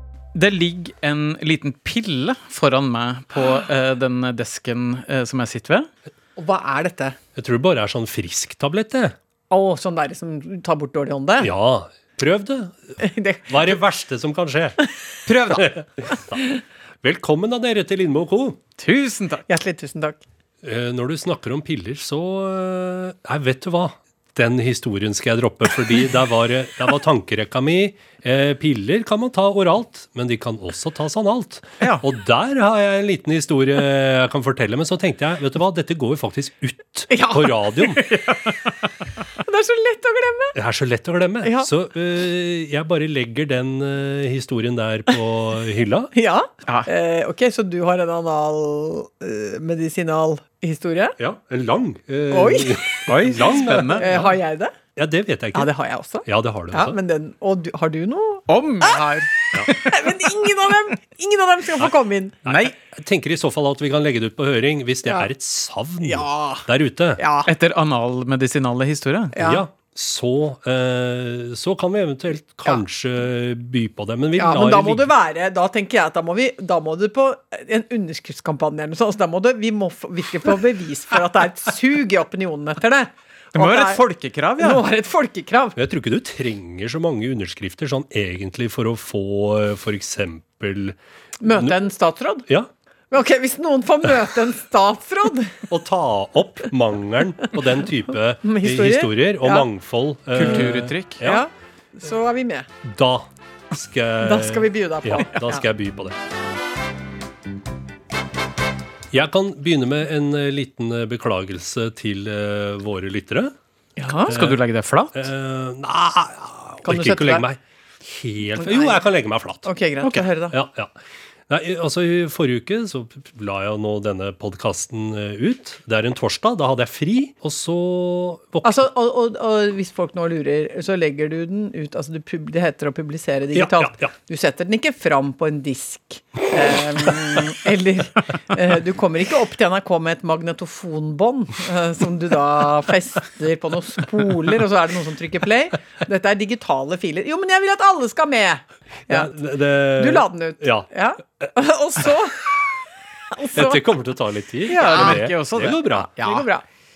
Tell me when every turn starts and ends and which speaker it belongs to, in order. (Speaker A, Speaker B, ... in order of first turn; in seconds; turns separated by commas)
Speaker A: 0.3-5.9, Speaker B: 6.4-7.2, Speaker C: 7.3-9.2, Speaker B: 9.5-11.5, Speaker C: 11.4-14.8, Speaker B: 13.0-13.8, Speaker A: 15.3-15.7, Speaker C: 15.6-16.4, Speaker B: 16.1-16.5, Speaker C: 17.0-18.6, Speaker A: 18.8-19.4, Speaker B: 19.5-20.2, Speaker C: 20.6-38.0, Speaker B: 37.1-38.4, Speaker B: 39.4-40.5, Speaker C: 40.5-46.1, Speaker B: 41.4-41.7, Speaker B: 46.1-51.1, Speaker C: 51.2-54.2, Speaker B: 52.3-54.7, Speaker A: 53.1-54.3, Speaker C: 55.0-55.7, Speaker B: 55.5-62.4, Speaker C: 56.2-57.0, Speaker A: 58.5-60.3, Speaker C: 62.4-67.2, Speaker A: 62.5-62.7, Speaker B: 66.0-67.5, Speaker A: 67.5-69.3, Speaker B: 69.3-69.6, Speaker C: 69.4-75.1, Speaker B: 74.4-84.0, Speaker A: 83.5-84.8, Speaker B: 84.6-85.8, Speaker C: 85.8-91.8, Speaker B: 91.4-92.4, Speaker B: 93.1-95.6, Speaker C: 95.7-101.4, Speaker B: 98.4-99.7, Speaker A: 100.3-101.2, Speaker B: 100.4-102.7, Speaker C: 102.8-106.2, Speaker B: 104.2-105.6, Speaker C: 109.1-113.5, Speaker B: 114.0-114.3, Speaker A: 114.2-115.2, Speaker C: 114.3-114.6, Speaker C: 115.1-119.7, Speaker B: 116.8-117.4, Speaker B: 118.6-119.0, Speaker B: 119.6-120.6, Speaker C: 120.5-120.9, Speaker C: 121.5-128.8, Speaker B: 128.6-149.3, Speaker C: 133.5-134.1, Speaker C: 149.1-150.9, Speaker B: 149.9-152.6, Speaker B: 153.3-153.8, Speaker C: 153.5-156.1, Speaker B: 154.7-155.3, Speaker A: 154.7-156.5, Speaker B: 155.8-156.6